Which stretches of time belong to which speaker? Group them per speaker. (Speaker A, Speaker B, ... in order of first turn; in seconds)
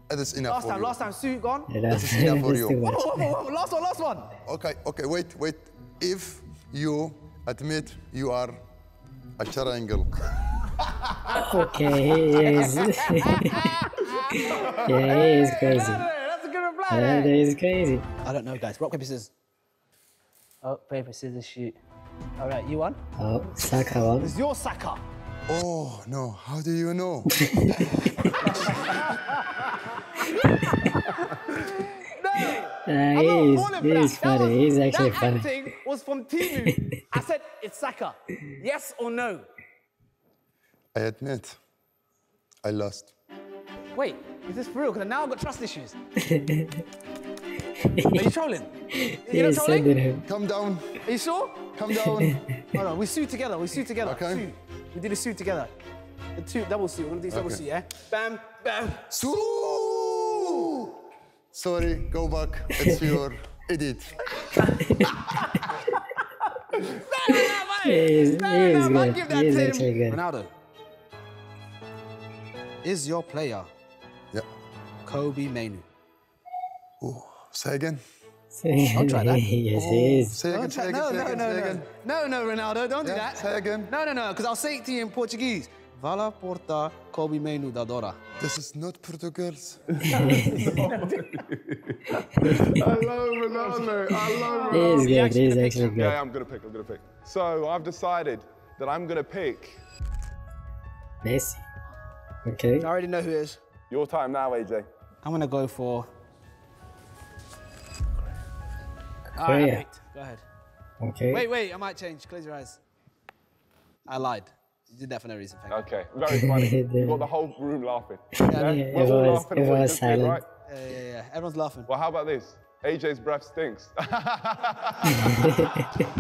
Speaker A: 0.1-1.0, 1.9-2.8, 4.5-8.6, 9.4-10.2, 25.5-27.9, 40.9-41.6, 42.6-43.1, 50.2-51.0, 51.7-52.4, 54.0-54.5, 57.3-57.6, 59.1-60.9, 61.5-64.3, 77.0-78.0, 79.7-81.8, 83.0-83.9, 88.4-90.1
Speaker B: 0.5-1.7, 2.8-4.3, 12.3-17.4, 18.2-19.3, 20.6-21.8, 22.4-23.0, 24.2-25.0, 28.5-39.5, 43.9-46.0, 48.1-48.7, 49.3-50.0, 51.0-51.7, 52.7-55.7, 56.4-59.1, 66.7-70.5, 72.8-73.7, 75.0-75.8, 78.9-79.4, 80.5-88.2, 93.5-95.9, 102.8-103.6, 105.2-106.1, 109.4-110.4, 111.3-112.8, 114.1-115.8, 118.5-119.1, 120.6-121.9
Speaker C: 1.7-3.3, 11.3-13.7, 14.3-16.1, 16.9-18.1, 23.2-24.3, 32.9-35.5, 36.5-36.7, 46.2-46.8, 47.8-48.3, 48.9-50.2, 52.0-52.5, 67.8-70.2, 78.5-80.4, 94.7-96.2, 101.2-101.6, 102.4-102.9, 109.4-109.8, 111.0-111.5, 116.3-117.3, 118.4-120.5, 125.1-125.9
Speaker D: 90.0-95.1, 95.9-99.8, 103.9-104.8, 115.7-120.5, 121.9-125.7